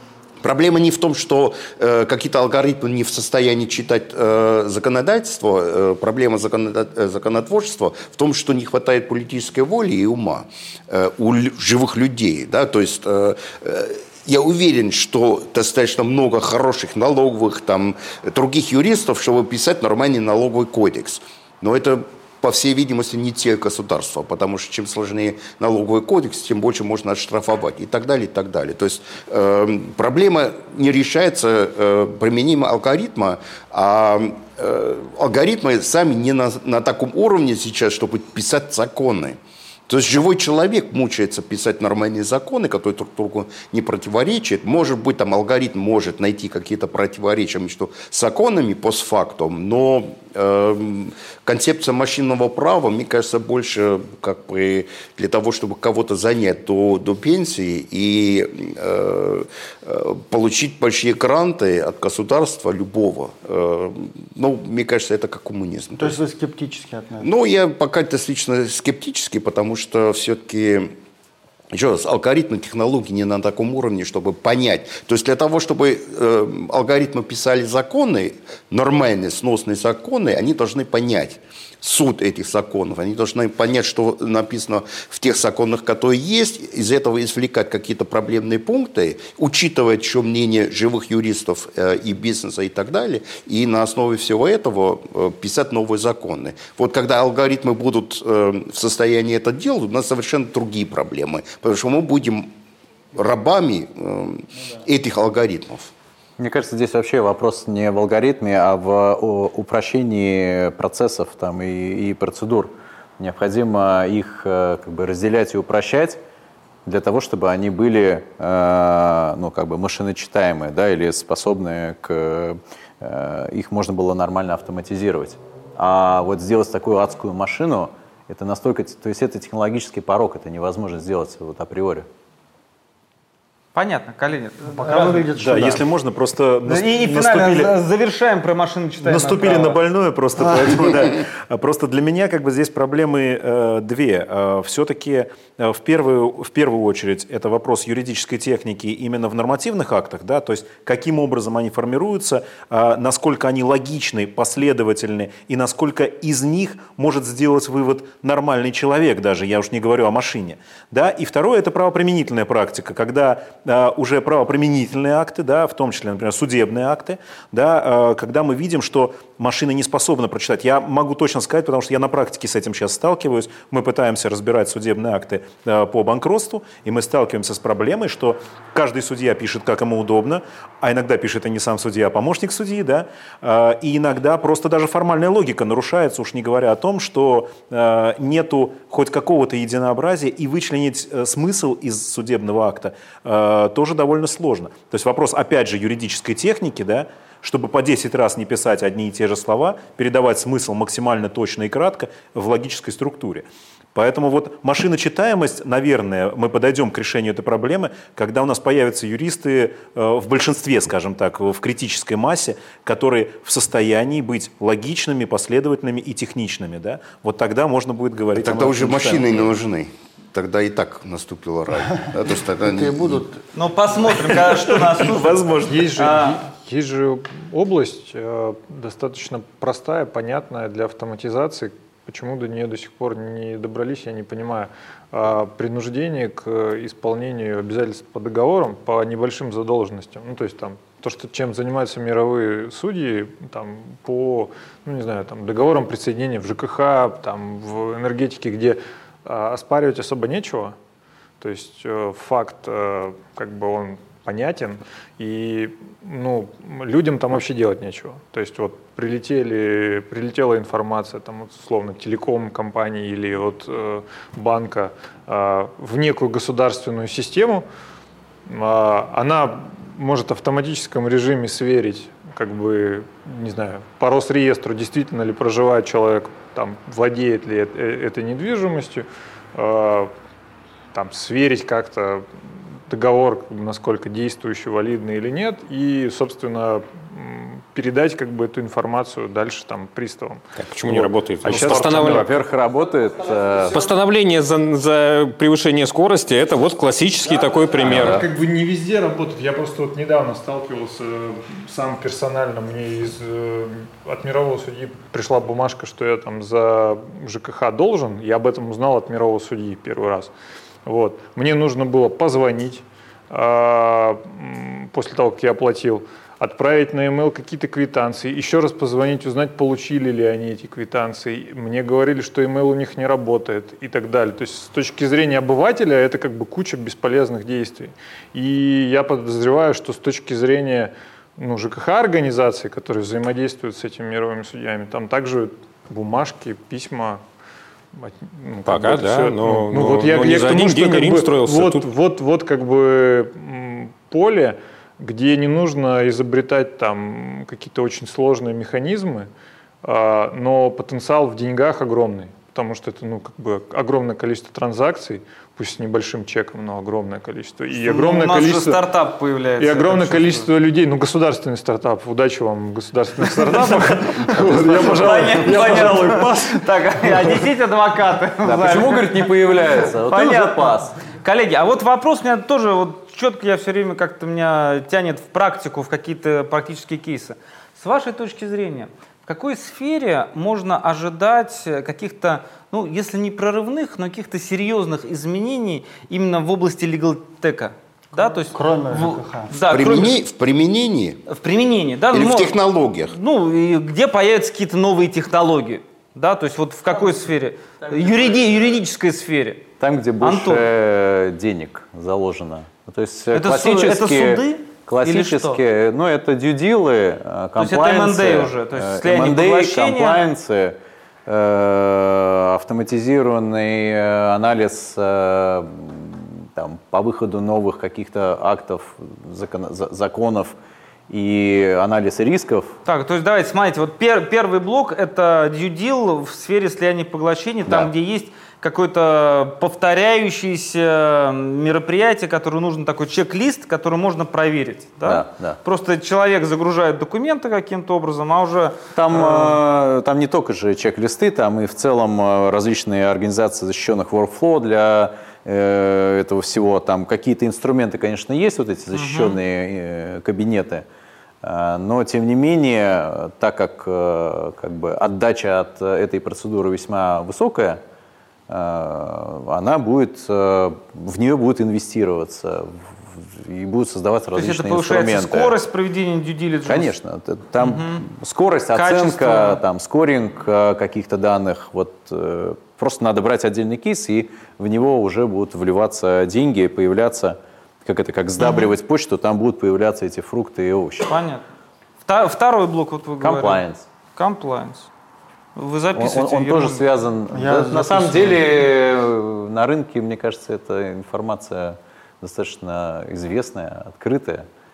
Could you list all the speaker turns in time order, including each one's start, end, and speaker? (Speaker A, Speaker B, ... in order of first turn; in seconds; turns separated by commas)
Speaker A: 0.4-66.2, Speaker B: 66.0-67.3, Speaker A: 67.2-70.9, Speaker A: 71.7-102.5, Speaker A: 103.1-105.9, Speaker C: 106.4-116.2, Speaker C: 116.8-132.1, Speaker D: 133.7-135.3, Speaker B: 134.7-135.8, Speaker E: 135.4-137.7, Speaker D: 136.7-139.8, Speaker E: 139.0-219.5, Speaker A: 218.3-223.3, Speaker B: 222.1-223.4, Speaker D: 223.5-226.4, Speaker E: 224.2-226.1, Speaker F: 225.7-250.8, Speaker F: 251.4-267.6, Speaker F: 268.4-280.1, Speaker F: 280.9-282.3, Speaker F: 282.9-292.2, Speaker G: 290.6-292.2, Speaker C: 291.4-293.8, Speaker G: 293.7-298.2, Speaker C: 297.8-298.2, Speaker F: 297.8-310.3, Speaker F: 310.8-337.2, Speaker F: 337.9-349.3, Speaker G: 338.6-341.9, Speaker F: 349.8-358.8, Speaker D: 357.8-360.5, Speaker F: 359.6-366.5, Speaker D: 363.4-390.1, Speaker C: 368.4-370.9, Speaker B: 388.5-389.8, Speaker A: 389.7-391.2, Speaker D: 391.3-392.6, Speaker A: 392.1-393.1, Speaker D: 393.1-400.6, Speaker C: 399.8-420.5, Speaker D: 403.3-405.6, Speaker D: 407.6-410.2, Speaker C: 421.1-422.8, Speaker D: 422.8-439.6, Speaker C: 435.0-435.6, Speaker C: 438.9-450.9, Speaker D: 448.9-449.4, Speaker C: 451.4-457.8, Speaker C: 458.5-465.6, Speaker D: 464.3-466.9, Speaker C: 466.6-481.1, Speaker D: 467.6-468.1, Speaker D: 468.7-469.6, Speaker D: 478.4-478.7, Speaker D: 481.0-481.4, Speaker D: 482.1-483.6, Speaker C: 483.2-483.8, Speaker D: 484.1-484.9, Speaker D: 485.6-486.9, Speaker C: 485.9-494.5, Speaker B: 487.3-488.6